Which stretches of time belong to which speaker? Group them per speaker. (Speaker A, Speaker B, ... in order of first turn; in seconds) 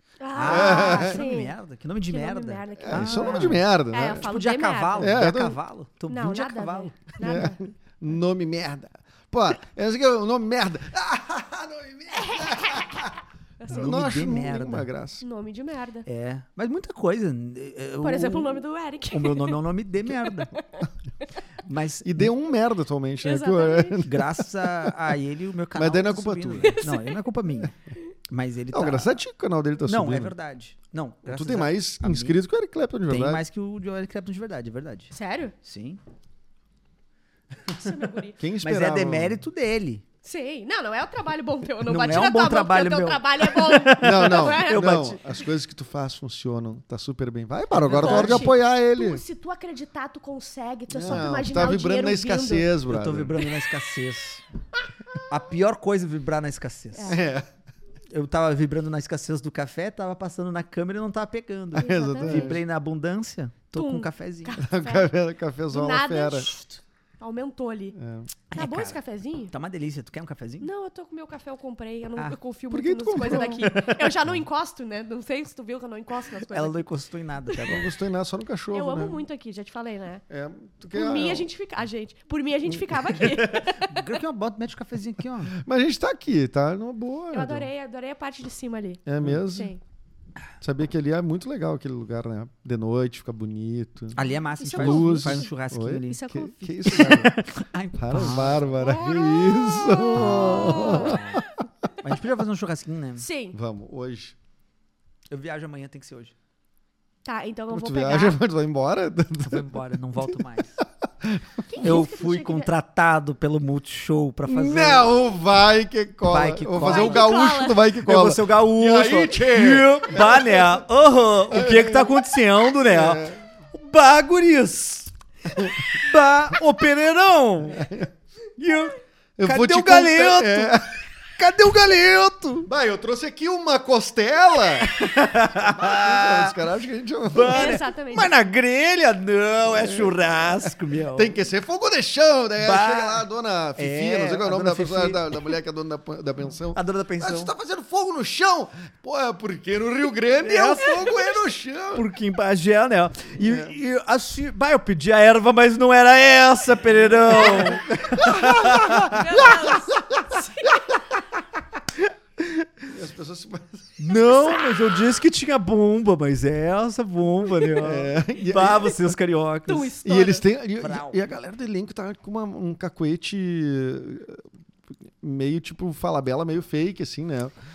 Speaker A: 0.2-1.5, 2.1-5.2, 6.1-7.6, 12.1-13.1, 13.6-13.9, 15.2-16.1, 18.0-19.6, 20.3-20.9, 23.2-24.0, 26.6-27.2, 35.1-35.5, 37.7-38.4, 40.2-45.2, 47.9-52.7, 56.9-57.2, 61.8-62.6, 63.7-65.1, 65.7-68.0, 68.5-69.5, 70.6-76.8, 78.7-80.2, 80.9-84.2, 87.3-89.8, 94.6-95.5, 96.0-97.0, 98.7-101.4, 103.2-103.6, 107.2-108.4, 111.7-112.7, 116.8-117.8, 137.5-138.3, 150.6-151.3, 159.1-161.1, 169.7-170.5
Speaker B: 0.3-3.6, 4.2-7.1, 13.7-14.9, 16.1-20.5, 21.7-22.3, 24.0-27.8, 28.3-29.2, 29.9-32.4, 33.1-36.0, 38.6-40.0, 41.9-45.2, 47.8-48.5, 52.9-54.4, 55.3-57.2, 58.1-64.6, 68.5-69.0, 69.5-70.7, 73.3-74.2, 76.5-77.9, 83.0-85.5, 94.2-96.3, 96.9-98.8, 100.1-101.5, 102.0-103.2, 105.3-106.3, 109.4-110.8, 111.8-115.1, 116.3-127.9, 128.6-132.7, 134.8-136.6, 137.3-141.4, 142.6-143.2, 143.8-145.5, 146.7-147.5, 150.4-151.2, 151.9-159.4, 162.4-162.7, 164.0-170.0, 170.8-171.2
Speaker C: 0.4-1.2, 2.8-4.3, 5.0-5.6, 7.2-13.2, 13.7-15.2, 22.0-25.1, 25.8-26.8, 28.7-30.3, 31.3-33.4, 38.4-39.4, 44.0-49.2, 50.9-53.4, 57.1-57.5, 61.7-62.6, 64.6-66.5, 68.0-68.3, 72.7-73.8, 77.6-79.2, 80.3-81.5, 85.5-87.7, 89.1-89.7, 90.6-94.2, 94.7-97.3, 98.0-101.4, 103.5-104.4, 107.7-109.7, 111.2-111.8, 114.5-120.8, 121.5-123.4, 127.8-128.1, 129.4-130.9, 132.7-135.0, 135.5-137.8, 139.7-152.1, 153.4-153.8, 157.3-160.2, 162.9-164.0, 167.7-169.1, 170.0-174.5, 175.1-177.5